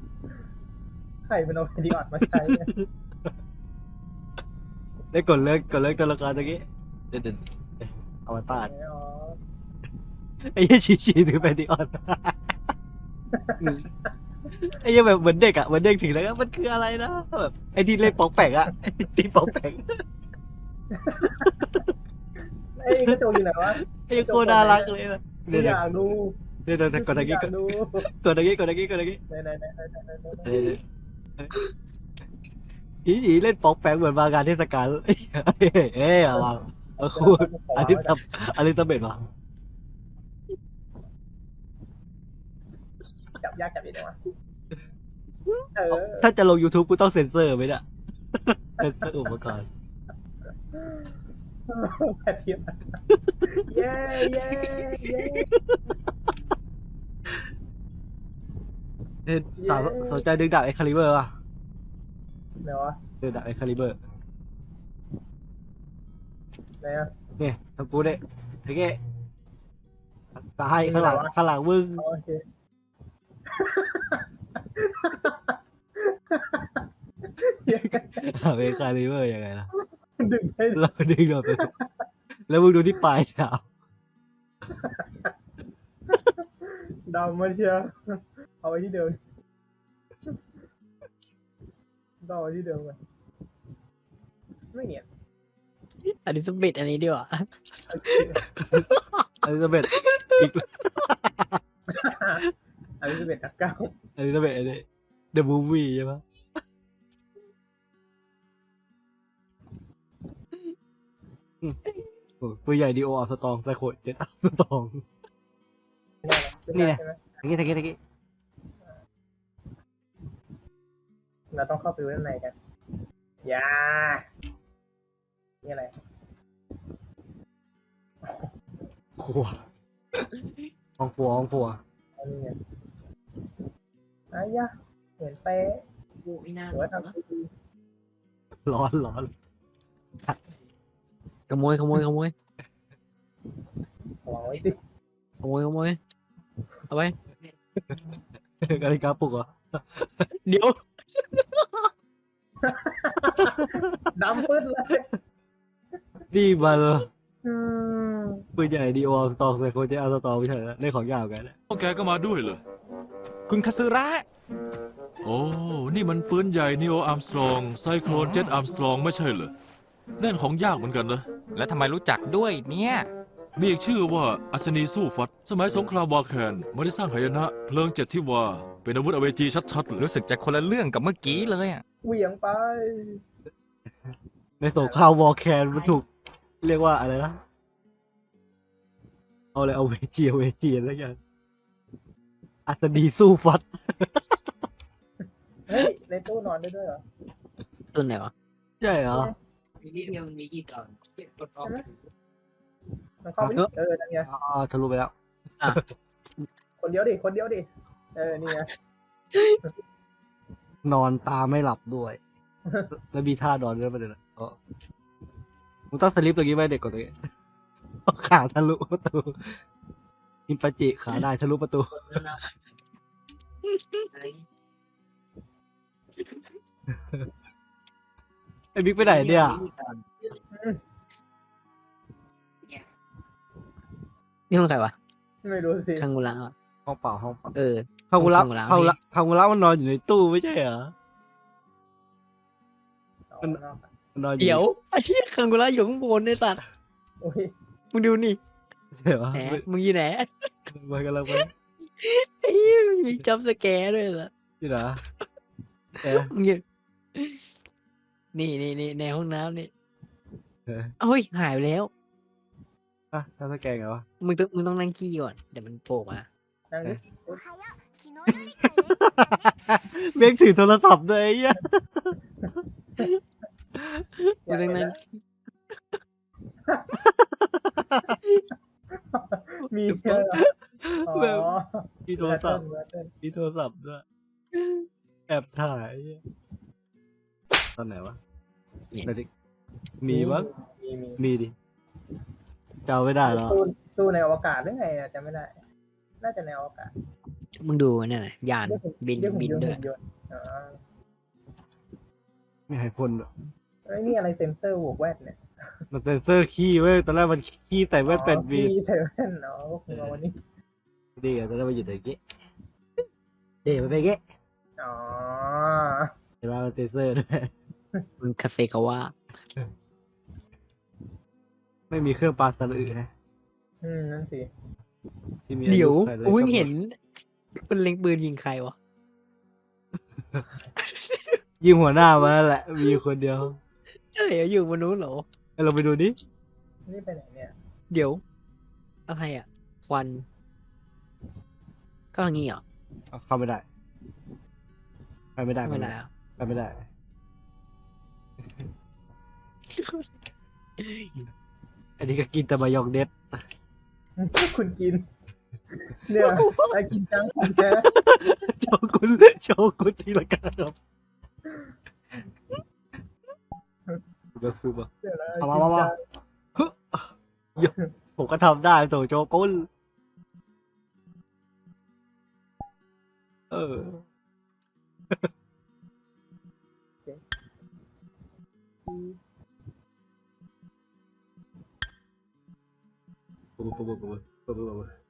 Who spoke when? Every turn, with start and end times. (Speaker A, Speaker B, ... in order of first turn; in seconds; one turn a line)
Speaker A: 1.3-2.7
Speaker B: 2.3-2.9
Speaker B: 5.1-8.7
Speaker A: 8.5-9.4
Speaker B: 10.4-12.5
Speaker A: 13.3-13.7
Speaker B: 13.6-13.9
Speaker B: 14.6-20.0
Speaker A: 20.9-21.7
Speaker B: 21.2-21.8
Speaker A: 22.8-24.9
Speaker B: 22.9-23.2
Speaker B: 23.7-25.8
Speaker A: 25.5-28.1
Speaker B: 26.7-29.2
Speaker A: 29.3-30.7
Speaker B: 30.4-30.8
Speaker B: 33.0-39.2
Speaker A: 37.0-38.2
Speaker A: 43.4-44.2
Speaker A: 45.7-46.3
Speaker B: 45.9-49.7
Speaker A: 50.7-55.5
Speaker B: 55.2-55.8
Speaker B: 59.2-61.3
Speaker A: 59.6-60.2
Speaker A: 62.6-63.0
Speaker B: 63.2-64.0
Speaker A: 66.8-67.1
Speaker B: 67.4-69.0
Speaker B: 70.4-72.0
Speaker A: 70.8-71.3
Speaker A: 72.0-72.4
Speaker A: 73.6-74.2
Speaker A: 74.8-75.5
Speaker A: 76.3-76.8
Speaker A: 77.4-78.2
Speaker B: 77.9-79.7
Speaker A: 80.2-80.8
Speaker B: 80.7-81.7
Speaker A: 81.5-81.9
Speaker B: 82.5-83.6
Speaker A: 84.8-85.3
Speaker A: 86.1-89.2
Speaker A: 92.2-93.0
Speaker A: 94.7-95.0
Speaker C: 96.0-97.5
Speaker A: 97.9-98.4
Speaker C: 98.4-99.2
Speaker B: 99.4-101.6
Speaker C: 99.9-100.5
Speaker A: 101.9-102.4
Speaker A: 103.0-103.9
Speaker B: 104.2-106.2
Speaker B: 112.4-115.0
Speaker A: 116.2-117.3
Speaker B: 116.7-118.0
Speaker A: 121.5-122.5
Speaker A: 123.4-124.2
Speaker A: 125.6-125.9
Speaker A: 128.2-128.5
Speaker B: 129.2-129.6
Speaker B: 131.0-131.8
Speaker A: 132.2-132.6
Speaker A: 134.3-135.8
Speaker C: 136.2-136.7
Speaker A: 136.7-137.5
Speaker B: 138.7-139.3
Speaker C: 141.5-142.3
Speaker A: 144.2-144.8
Speaker C: 145.4-146.0
Speaker C: 146.9-147.2
Speaker B: 148.6-150.3
Speaker C: 150.4-150.8
Speaker C: 151.3-151.9
Speaker A: 152.6-155.1
Speaker B: 156.3-157.1
Speaker A: 157.4-158.4
Speaker B: 158.6-161.5
Speaker D: 161.7-162.6
Speaker E: 163.5-164.2
Speaker D: 165.2-169.5
Speaker E: 168.1-168.6
Speaker D: 170.2-171.2
Speaker E: 171.5-173.1
Speaker D: 173.6-180.0
Speaker E: 179.9-181.8
Speaker A: 182.0-183.2
Speaker B: 184.6-186.1
Speaker B: 186.6-187.4
Speaker B: 189.5-191.2
Speaker B: 192.7-194.4
Speaker A: 195.7-197.0
Speaker C: 197.9-198.3
Speaker B: 198.8-199.3
Speaker C: 199.9-201.5
Speaker A: 201.6-201.9
Speaker A: 203.2-204.3
Speaker B: 204.3-205.1
Speaker A: 206.8-208.7
Speaker B: 210.8-212.2
Speaker B: 212.9-214.6
Speaker B: 215.9-217.2
Speaker B: 218.1-219.6
Speaker B: 220.5-222.3
Speaker B: 228.7-229.6
Speaker C: 229.0-230.0
Speaker A: 230.5-230.8
Speaker C: 234.5-234.9
Speaker A: 235.4-236.1
Speaker C: 236.0-236.5
Speaker B: 236.8-237.5
Speaker C: 237.5-239.0
Speaker B: 238.1-240.9
Speaker A: 243.3-243.9
Speaker B: 244.1-244.6
Speaker C: 244.4-246.6
Speaker A: 247.2-247.5
Speaker C: 247.9-248.4
Speaker B: 248.9-249.7
Speaker C: 249.3-250.3
Speaker B: 250.7-251.5
Speaker C: 252.0-254.3
Speaker B: 254.6-255.0
Speaker B: 256.0-256.3
Speaker C: 256.1-256.6
Speaker C: 257.1-257.4
Speaker C: 258.3-259.7
Speaker B: 260.7-260.9
Speaker C: 261.0-261.9
Speaker B: 263.1-264.0
Speaker C: 264.2-266.3
Speaker A: 266.7-267.4
Speaker B: 268.2-272.1
Speaker C: 274.5-274.9
Speaker A: 274.5-274.9
Speaker A: 276.7-277.0
Speaker B: 277.3-278.1
Speaker A: 279.1-280.5
Speaker C: 279.9-280.4
Speaker B: 280.8-281.5
Speaker A: 281.1-283.1
Speaker B: 282.1-282.6
Speaker B: 283.2-284.0
Speaker C: 284.5-284.9
Speaker B: 285.3-286.2
Speaker B: 287.8-288.2
Speaker B: 290.0-290.5
Speaker A: 290.1-291.2
Speaker B: 291.2-291.5
Speaker B: 292.9-293.6
Speaker A: 293.2-295.6
Speaker A: 296.2-296.9
Speaker C: 297.6-299.8
Speaker A: 298.6-300.8
Speaker B: 302.7-303.3
Speaker A: 303.9-305.4
Speaker B: 305.9-308.7
Speaker A: 308.1-310.4
Speaker B: 309.9-310.1
Speaker B: 311.2-312.2
Speaker B: 313.6-314.2
Speaker A: 314.8-316.1
Speaker B: 316.4-317.5
Speaker C: 318.2-319.1
Speaker B: 321.9-323.1
Speaker A: 323.8-324.5
Speaker B: 325.5-326.7
Speaker C: 325.6-326.9
Speaker C: 327.6-328.7
Speaker C: 330.8-331.4
Speaker B: 331.6-333.6
Speaker C: 332.0-332.3
Speaker C: 334.1-335.2
Speaker B: 335.6-336.2
Speaker A: 336.9-337.5
Speaker C: 337.9-338.2
Speaker C: 339.1-340.2
Speaker C: 342.1-342.6
Speaker B: 343.1-343.6
Speaker B: 345.4-346.8
Speaker C: 345.6-346.1
Speaker C: 349.8-350.0
Speaker C: 350.8-351.2
Speaker B: 352.0-353.2
Speaker A: 354.2-355.1
Speaker A: 355.9-357.9
Speaker C: 356.2-356.7
Speaker B: 357.8-360.8
Speaker B: 364.4-364.9
Speaker A: 365.0-365.9
Speaker B: 365.4-365.9
Speaker B: 366.6-369.7
Speaker B: 373.5-374.0
Speaker A: 378.9-379.2
Speaker B: 383.6-384.9